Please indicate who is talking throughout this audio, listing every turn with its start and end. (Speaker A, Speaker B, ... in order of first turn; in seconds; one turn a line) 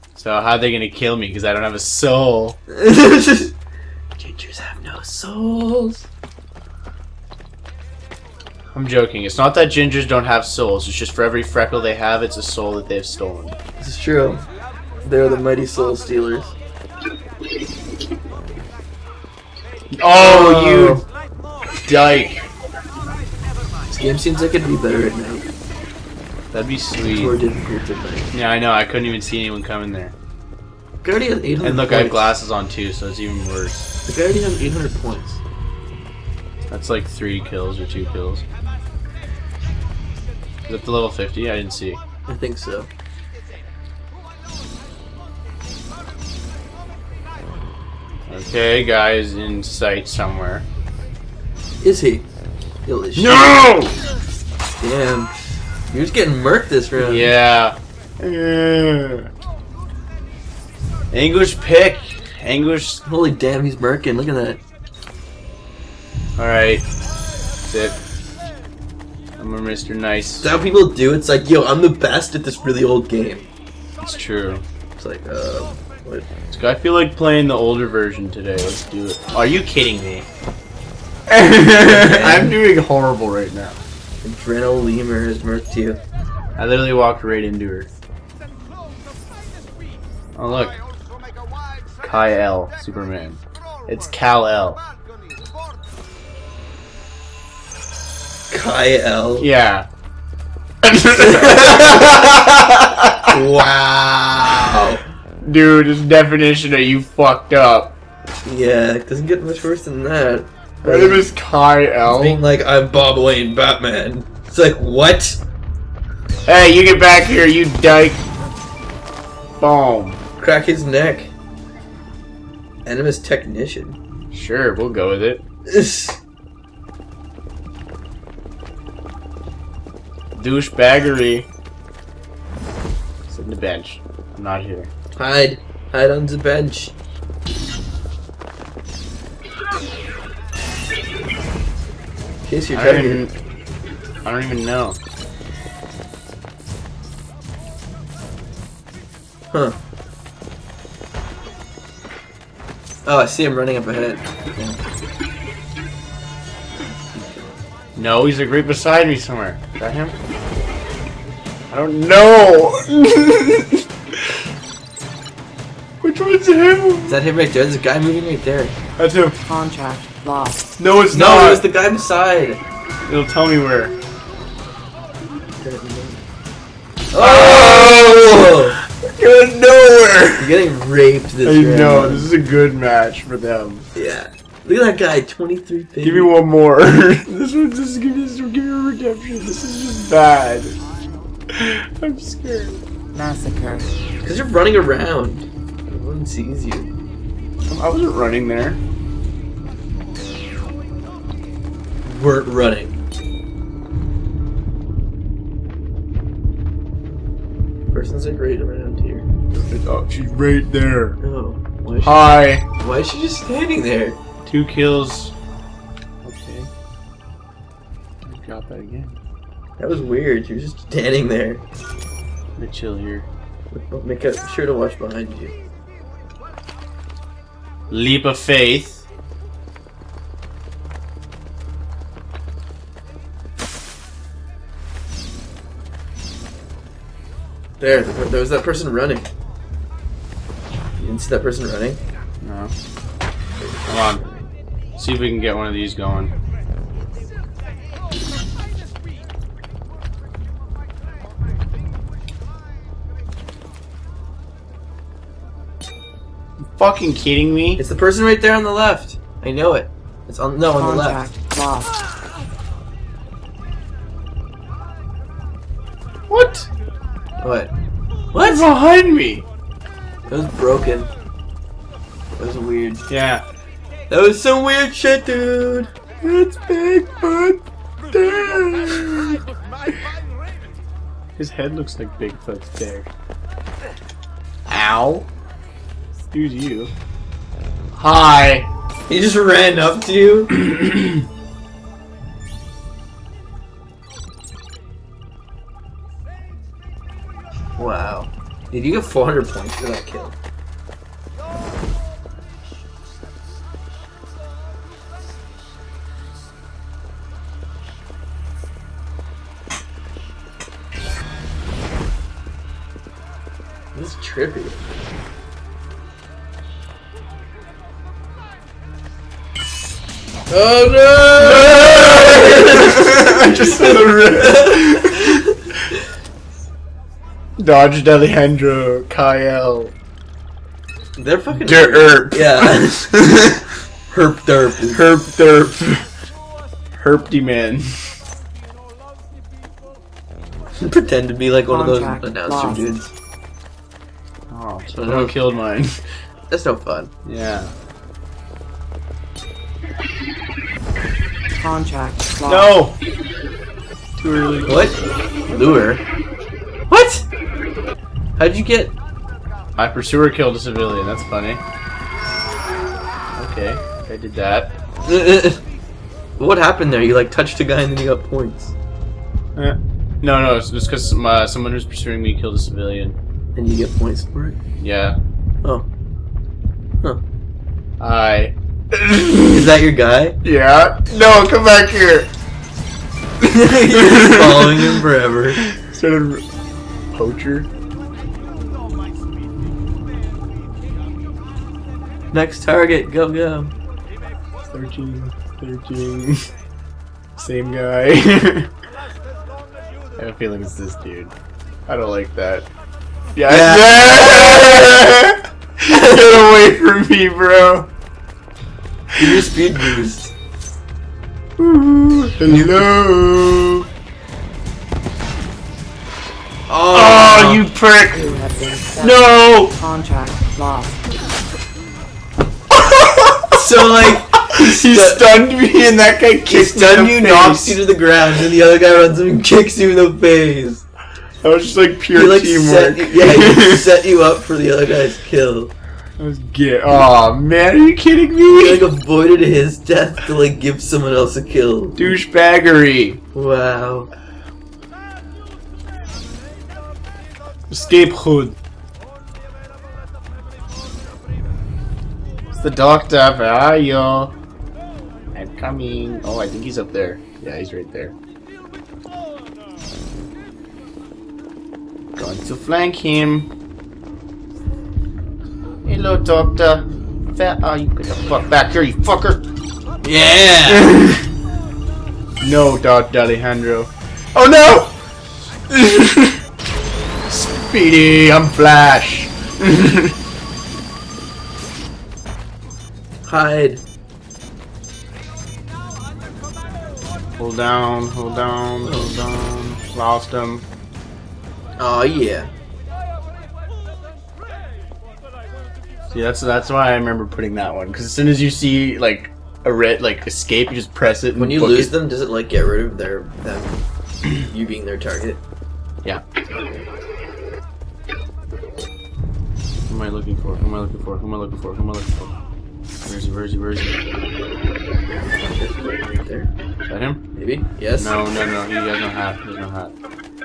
Speaker A: 0.1-2.6
Speaker B: 2.7-3.5
Speaker B: 4.2-6.0
Speaker A: 8.7-13.6
Speaker B: 13.8-14.4
Speaker B: 15.0-16.5
Speaker A: 19.9-21.0
Speaker B: 20.1-21.0
Speaker A: 21.8-22.4
Speaker B: 23.9-25.5
Speaker A: 26.5-27.4
Speaker B: 27.1-28.3
Speaker A: 28.3-30.1
Speaker B: 31.0-32.2
Speaker A: 31.6-33.9
Speaker B: 34.0-35.4
Speaker A: 36.7-38.4
Speaker A: 40.7-42.0
Speaker B: 42.3-42.9
Speaker A: 48.3-50.6
Speaker B: 51.8-52.2
Speaker B: 52.9-53.5
Speaker A: 53.1-54.0
Speaker B: 54.8-55.3
Speaker B: 55.9-57.3
Speaker A: 57.0-59.3
Speaker A: 61.1-63.0
Speaker B: 63.0-64.6
Speaker A: 66.4-66.8
Speaker A: 67.6-68.0
Speaker A: 69.4-70.5
Speaker B: 70.4-73.5
Speaker A: 74.0-74.7
Speaker B: 75.0-76.3
Speaker A: 76.5-80.3
Speaker A: 81.3-83.8
Speaker B: 81.7-82.6
Speaker B: 84.2-86.0
Speaker A: 86.6-87.9
Speaker A: 90.3-90.8
Speaker A: 92.0-94.8
Speaker B: 98.5-99.5
Speaker A: 99.4-99.9
Speaker A: 100.8-103.4
Speaker B: 101.2-102.2
Speaker B: 103.3-105.0
Speaker A: 105.4-107.9
Speaker B: 108.4-111.3
Speaker A: 110.8-112.4
Speaker B: 112.1-115.4
Speaker A: 116.5-118.2
Speaker A: 119.6-120.2
Speaker B: 120.4-121.3
Speaker B: 122.8-124.0
Speaker A: 124.3-125.4
Speaker B: 125.7-126.2
Speaker A: 130.3-131.5
Speaker A: 133.3-134.9
Speaker B: 135.2-136.9
Speaker B: 142.4-143.2
Speaker A: 142.7-143.3
Speaker A: 144.2-145.0
Speaker B: 153.0-154.8
Speaker B: 157.1-157.5
Speaker A: 157.9-160.2
Speaker A: 161.7-164.4
Speaker A: 166.0-167.2
Speaker B: 167.1-168.8
Speaker A: 169.0-169.4
Speaker C: 169.4-170.7
Speaker A: 170.8-171.6
Speaker B: 171.1-172.6
Speaker A: 173.0-173.9
Speaker B: 175.6-176.2
Speaker B: 177.1-178.8
Speaker A: 177.2-180.6
Speaker B: 180.4-182.3
Speaker A: 181.4-183.9
Speaker B: 183.9-186.3
Speaker A: 186.0-190.8
Speaker A: 191.5-192.8
Speaker C: 193.1-193.9
Speaker B: 194.2-196.9
Speaker A: 197.7-198.8
Speaker B: 202.0-202.9
Speaker B: 207.9-209.3
Speaker A: 209.5-211.2
Speaker B: 211.2-214.2
Speaker A: 212.0-212.7
Speaker A: 214.4-215.3
Speaker A: 216.2-216.7
Speaker A: 218.2-219.2
Speaker B: 219.8-221.6
Speaker A: 222.6-223.3
Speaker B: 223.7-225.5
Speaker A: 227.9-229.0
Speaker B: 237.8-239.3
Speaker B: 241.0-242.0
Speaker A: 242.4-242.7
Speaker B: 243.6-244.4
Speaker A: 243.9-244.2
Speaker A: 244.9-246.3
Speaker A: 256.7-257.8
Speaker B: 257.8-261.3
Speaker C: 260.8-261.9
Speaker A: 266.3-266.7
Speaker B: 267.4-267.7
Speaker B: 268.3-268.6
Speaker A: 268.4-269.4
Speaker B: 270.3-271.1
Speaker B: 272.4-273.0
Speaker A: 273.1-273.4
Speaker B: 274.1-275.9
Speaker A: 276.2-279.4
Speaker A: 281.4-283.1
Speaker A: 284.6-285.3
Speaker A: 286.3-286.9
Speaker A: 287.9-288.7
Speaker B: 289.1-290.5
Speaker A: 290.6-291.2
Speaker B: 297.8-300.4
Speaker B: 313.9-314.8
Speaker B: 320.5-325.6
Speaker A: 321.4-325.4
Speaker A: 327.6-329.9
Speaker B: 331.2-333.5
Speaker A: 331.5-333.7
Speaker B: 334.1-335.1
Speaker A: 334.9-336.1
Speaker A: 336.9-338.2
Speaker B: 340.8-343.1
Speaker C: 341.7-342.9
Speaker A: 344.5-346.0
Speaker B: 345.0-345.4
Speaker B: 346.5-347.1
Speaker A: 347.2-347.7
Speaker C: 351.6-352.8
Speaker A: 352.4-353.0
Speaker A: 354.2-355.0
Speaker B: 354.6-354.9
Speaker B: 355.5-356.0
Speaker B: 356.9-357.2
Speaker B: 358.4-358.9
Speaker A: 359.8-361.6
Speaker A: 363.4-364.7
Speaker B: 365.0-365.6
Speaker B: 366.4-368.7
Speaker A: 369.6-373.2
Speaker B: 373.6-374.6
Speaker A: 374.8-375.2
Speaker A: 378.0-379.8
Speaker B: 379.5-380.4
Speaker A: 380.4-382.3
Speaker B: 383.4-385.6
Speaker A: 383.8-385.0
Speaker A: 385.6-386.4
Speaker A: 387.1-387.7
Speaker B: 392.3-393.7
Speaker A: 394.7-396.5
Speaker A: 397.4-398.7
Speaker A: 400.1-401.3
Speaker A: 401.9-402.7
Speaker A: 403.4-407.9
Speaker B: 403.5-405.0
Speaker B: 405.9-406.2
Speaker A: 409.1-410.0
Speaker B: 409.2-410.3
Speaker A: 411.6-413.9
Speaker B: 412.5-412.8
Speaker B: 416.7-417.6
Speaker A: 416.9-418.4
Speaker C: 418.1-421.1
Speaker A: 419.0-419.7
Speaker A: 422.7-427.8
Speaker B: 423.5-425.3
Speaker B: 426.5-430.8
Speaker A: 431.4-433.9
Speaker B: 432.1-435.7
Speaker A: 436.2-438.9
Speaker B: 438.5-442.1
Speaker A: 441.9-443.2
Speaker B: 443.3-444.1
Speaker A: 447.7-448.6
Speaker A: 452.5-454.4
Speaker A: 455.3-458.1
Speaker A: 462.1-463.5
Speaker A: 465.9-469.4
Speaker B: 470.0-470.9
Speaker A: 470.6-471.2
Speaker A: 472.4-474.9
Speaker A: 475.7-476.4
Speaker A: 477.3-480.2
Speaker B: 483.2-483.8
Speaker A: 487.4-490.6
Speaker B: 488.8-489.1
Speaker B: 491.8-492.5
Speaker A: 496.1-501.9
Speaker B: 501.4-503.8
Speaker B: 504.3-505.4
Speaker A: 509.9-512.3
Speaker A: 513.0-514.0
Speaker B: 515.4-516.5
Speaker A: 516.9-517.2
Speaker B: 517.4-518.1
Speaker A: 518.0-519.9